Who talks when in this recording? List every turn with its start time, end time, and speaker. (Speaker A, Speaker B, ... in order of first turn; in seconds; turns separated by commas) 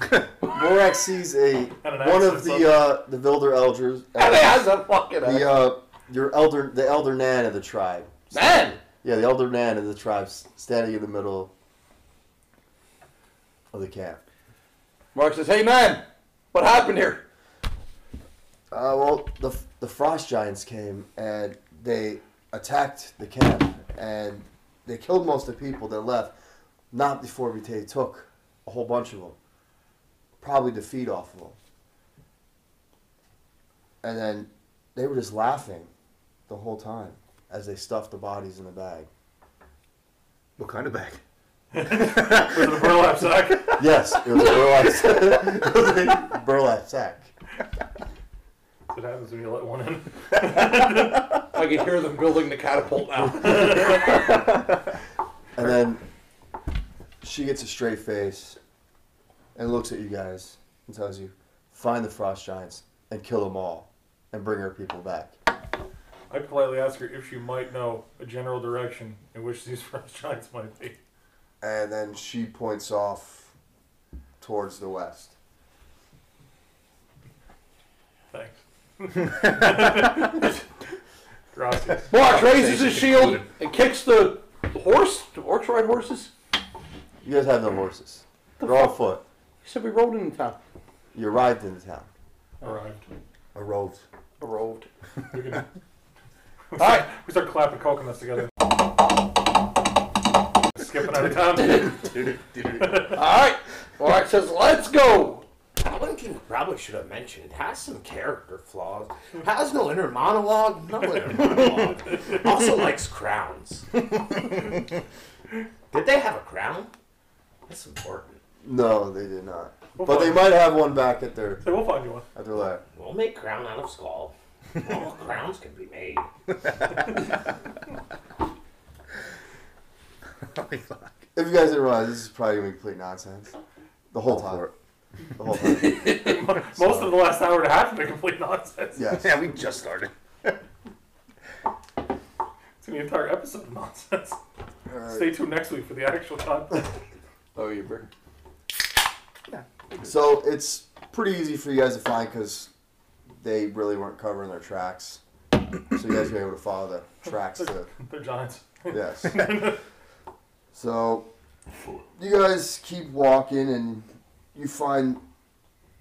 Speaker A: 0.4-4.6, Speaker B: 1.8-2.8, Speaker C: 4.2-5.5, Speaker A: 5.2-11.5, Speaker C: 8.3-8.8, Speaker A: 13.7-14.2, Speaker C: 15.1-17.2, Speaker A: 18.7-26.4, Speaker A: 26.9-29.4, Speaker A: 30.4-31.6, Speaker A: 34.0-35.9, Speaker A: 36.5-39.1, Speaker D: 40.6-41.2, Speaker B: 41.7-43.8, Speaker D: 41.8-42.6, Speaker A: 43.7-47.3, Speaker B: 48.9-51.3, Speaker C: 51.5-54.0, Speaker B: 53.4-54.1, Speaker A: 55.5-56.0, Speaker A: 57.2-58.6, Speaker A: 59.5-65.3, Speaker B: 66.3-71.0, Speaker A: 71.6-73.5, Speaker A: 74.4-75.3, Speaker B: 78.3-80.7, Speaker B: 81.5-82.3, Speaker C: 82.1-86.3, Speaker D: 82.5-83.3, Speaker A: 87.2-89.2, Speaker C: 88.6-88.9, Speaker C: 89.6-90.6, Speaker A: 91.1-92.1, Speaker B: 92.6-93.0, Speaker D: 93.5-94.0, Speaker C: 94.4-94.9, Speaker B: 95.3-95.7, Speaker B: 96.7-98.5, Speaker C: 96.8-97.1, Speaker B: 100.8-102.0, Speaker D: 101.8-103.1, Speaker B: 102.8-103.1, Speaker C: 103.1-105.5, Speaker E: 105.8-113.9, Speaker E: 115.9-116.9, Speaker E: 117.7-118.4, Speaker A: 118.6-121.7, Speaker B: 120.0-120.6, Speaker B: 121.6-122.3, Speaker A: 122.3-122.8, Speaker E: 123.0-126.3, Speaker D: 130.4-131.2, Speaker A: 131.3-133.5, Speaker A: 134.1-134.7, Speaker D: 134.2-134.7, Speaker A: 135.4-136.2, Speaker B: 135.8-139.2, Speaker C: 135.8-136.2, Speaker A: 139.0-139.3, Speaker D: 139.1-140.6, Speaker B: 142.8-144.4, Speaker A: 144.9-145.4, Speaker B: 145.0-146.9, Speaker C: 147.5-148.0, Speaker A: 150.0-152.7, Speaker A: 153.4-155.2, Speaker A: 155.9-157.9, Speaker B: 157.6-159.8, Speaker A: 158.9-159.6, Speaker A: 160.7-161.3, Speaker A: 162.2-165.2